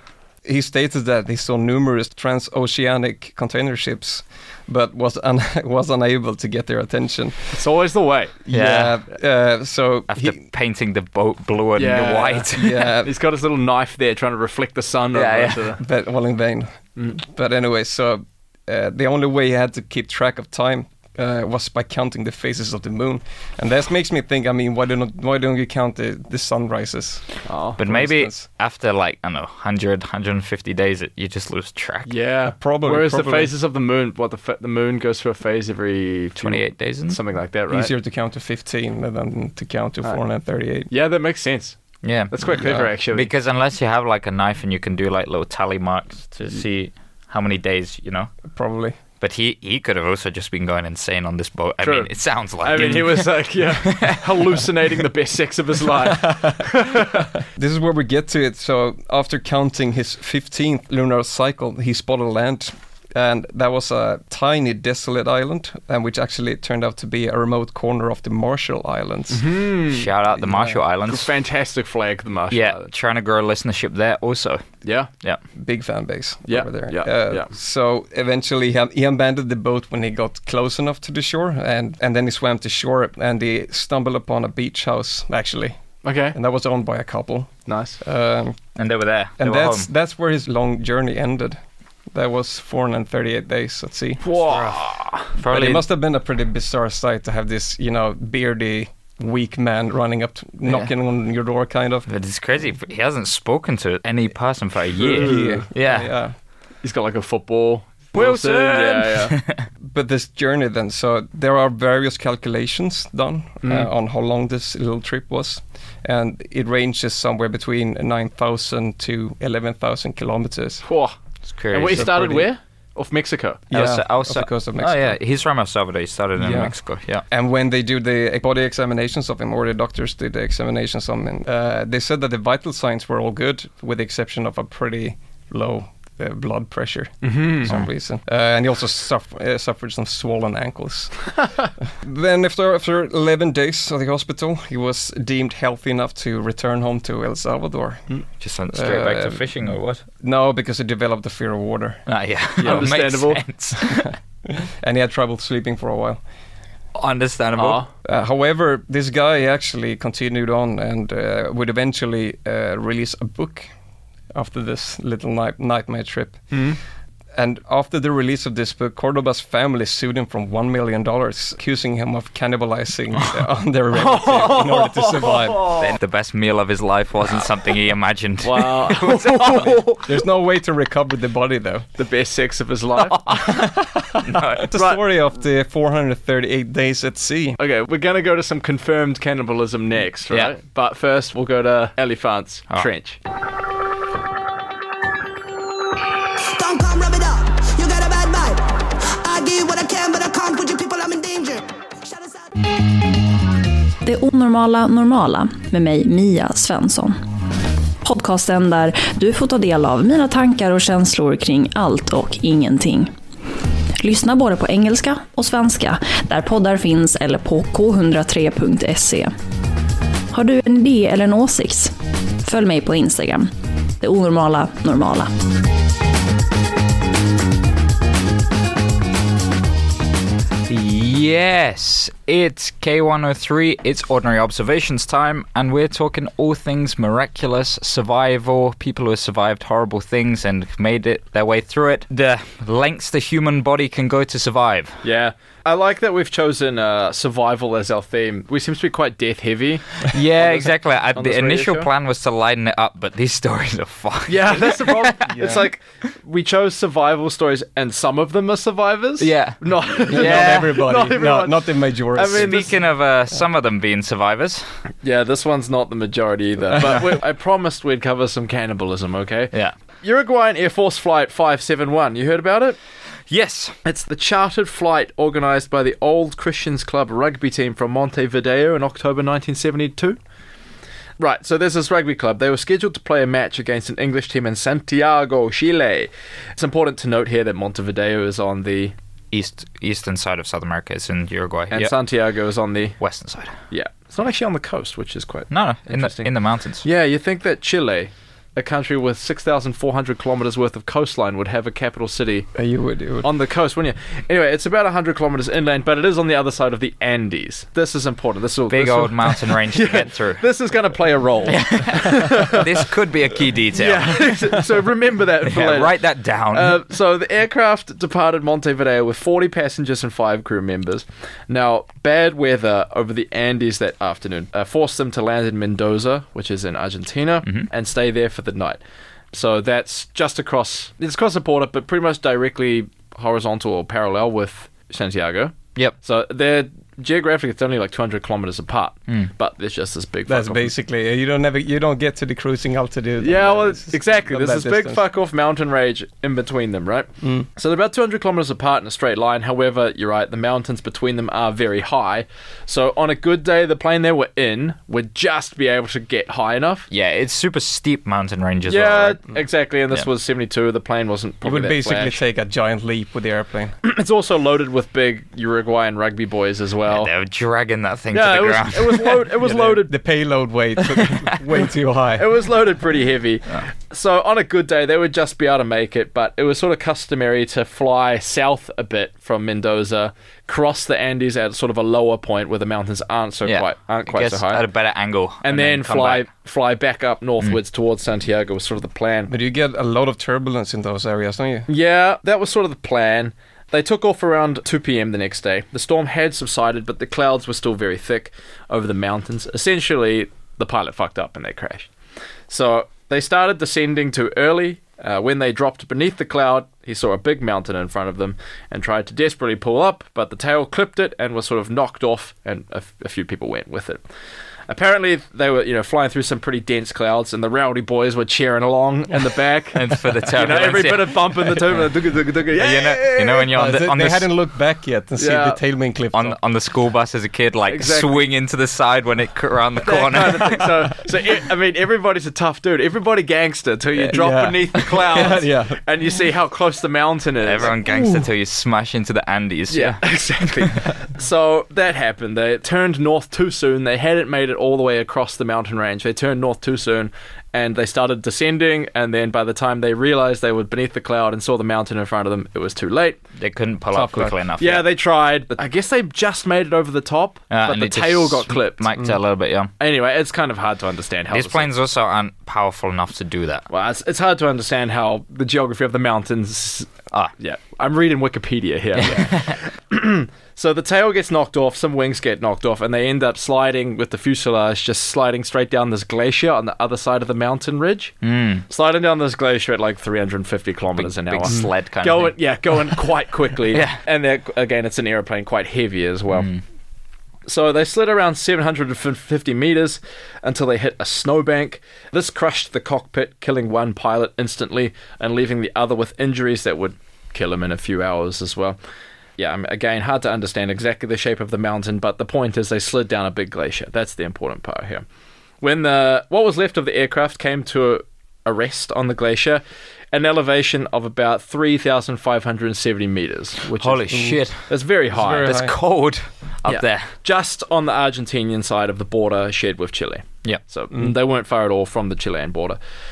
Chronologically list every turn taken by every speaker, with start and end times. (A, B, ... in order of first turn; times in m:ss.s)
0:00.4-0:07.6 A
0:07.5-0:08.4 B
0:08.4-0:10.4 A
0:08.5-0:09.0 C
0:10.1-0:12.9 C
0:11.8-0:12.5 B
0:12.5-0:13.1 A
0:13.0-0:15.8 B
0:15.1-0:15.6 C
0:15.8-0:27.2 A
0:27.5-0:27.8 B
0:27.8-0:28.4 A
0:27.8-0:32.1 C
0:32.0-0:37.9 B
0:32.5-0:33.5 A
0:36.4-0:37.2 C
0:37.7-0:40.9 A
0:40.9-0:41.8 B
0:42.0-0:42.3 C
0:42.3-0:43.3 B
0:42.5-0:42.9 A
0:42.9-0:48.3 C
0:48.5-0:49.0 A
0:49.2-0:54.2 C
0:51.8-0:57.3 B
0:56.1-0:57.0 A
0:57.6-1:09.5 A
1:09.3-1:10.1 B
1:09.9-1:11.3 C
1:10.4-1:10.8 A
1:11.1-1:12.9 B
1:12.5-1:14.6 C
1:14.8-1:15.1 B
1:15.5-1:25.8 A
1:16.5-1:17.5 B
1:26.0-1:26.4 B
1:26.3-1:28.6 A
1:27.7-1:28.0 B
1:28.8-1:29.9 C
1:29.4-1:31.6 A
1:32.1-1:34.2 A
1:34.2-1:35.3 B
1:34.3-1:35.8 C
1:35.4-1:42.1 A
1:40.6-1:40.9 C
1:42.1-1:46.1 C
1:45.0-1:45.6 B
1:45.1-1:46.3 A
1:46.8-1:49.4 B
1:48.1-1:49.6 C
1:49.8-2:00.8 A
1:53.6-1:53.9 B
2:00.8-2:01.1 B
2:01.5-2:02.4 C
2:01.7-2:03.6 B
2:01.9-2:02.4 A
2:03.7-2:05.1 A
2:03.7-2:07.2 C
2:06.4-2:06.7 A
2:07.3-2:21.3 A
2:17.2-2:17.7 B
2:22.0-2:28.1 A
2:28.4-2:30.0 C
2:28.7-2:29.4 A
2:30.2-2:32.0 A
2:32.1-2:34.1 C
2:32.6-2:32.9 A
2:32.6-2:33.4 B
2:34.0-2:36.2 A
2:36.9-2:37.8 C
2:37.6-2:37.9 B
2:38.0-2:43.7 A
2:44.3-2:46.5 A
2:46.5-2:46.8 B
2:47.3-2:55.7 A
2:53.9-2:55.8 B
2:55.8-2:59.8 C
2:58.4-3:00.1 B
3:00.0-3:01.9 A
3:02.0-3:03.2 B
3:03.1-3:03.6 C
3:03.3-3:07.6 A
3:04.2-3:04.7 C
3:04.7-3:05.0 B
3:07.6-3:13.2 B
3:16.4-3:22.6 D
3:24.0-3:27.2 E
3:28.0-3:33.1 E
3:34.0-3:39.3 E
3:40.3-3:45.3 E
3:50.7-4:05.0 C
4:05.0-4:11.9 B
4:10.1-4:15.2 C
4:14.3-4:22.8 B
4:15.3-4:15.6 A
4:19.2-4:20.8 C
4:20.1-4:22.7 A
4:22.3-4:24.6 C
4:25.0-4:32.8 B
4:33.3-4:33.7 C
4:33.8-4:40.2 B
4:41.2-4:48.9 B
4:49.3-4:51.9 C
4:51.7-4:53.0 B
4:53.0-4:53.5 C
4:53.7-4:56.3 B
4:55.5-4:56.8 C
4:56.8-5:02.5 B
5:02.5-5:03.3 A
5:03.2-5:12.8 B
5:08.7-5:10.4 C
5:11.5-5:14.3 C
5:13.7-5:28.8 B
5:15.4-5:16.8 C
5:29.3-5:40.7 B
5:40.3-5:45.0 A
5:43.2-5:56.9 B
5:47.2-5:47.5 A
5:56.9-5:59.2 C
5:58.7-6:02.2 B
6:01.4-6:03.7 A
6:03.8-6:07.1 B
6:06.9-6:09.2 C
6:08.1-6:10.0 B
6:09.4-6:12.3 A
6:12.2-6:24.6 B
6:23.4-6:26.2 C
6:25.4-6:29.3 B
6:29.3-6:31.7 A
6:31.7-6:41.9 B
6:42.5-6:54.0 B
6:54.7-7:03.5 B
6:59.7-7:01.8 C
7:02.5-7:04.3 C
7:03.3-7:06.4 A
7:05.2-7:05.6 B
7:06.1-7:10.7 C
7:07.7-7:08.2 B
7:09.8-7:17.8 B
7:14.0-7:15.8 A
7:17.4-7:20.0 C
7:19.7-7:33.2 B
7:33.4-7:34.8 C
7:33.9-7:34.3 A
7:34.6-7:38.8 B
7:37.5-7:39.7 C
7:39.8-7:41.7 B
7:41.3-7:43.6 C
7:43.7-7:58.2 B
7:49.0-7:49.6 C
7:58.2-7:58.6 C
7:58.7-8:06.5 B
8:01.0-8:02.3 C
8:03.7-8:04.0 C
8:06.3-8:06.6 C
8:07.4-8:18.8 B
8:19.4-8:25.0 B
8:25.6-8:35.5 B
8:33.8-8:34.6 C
8:35.1-8:35.7 A
8:35.4-8:37.1 C
8:36.7-8:42.8 B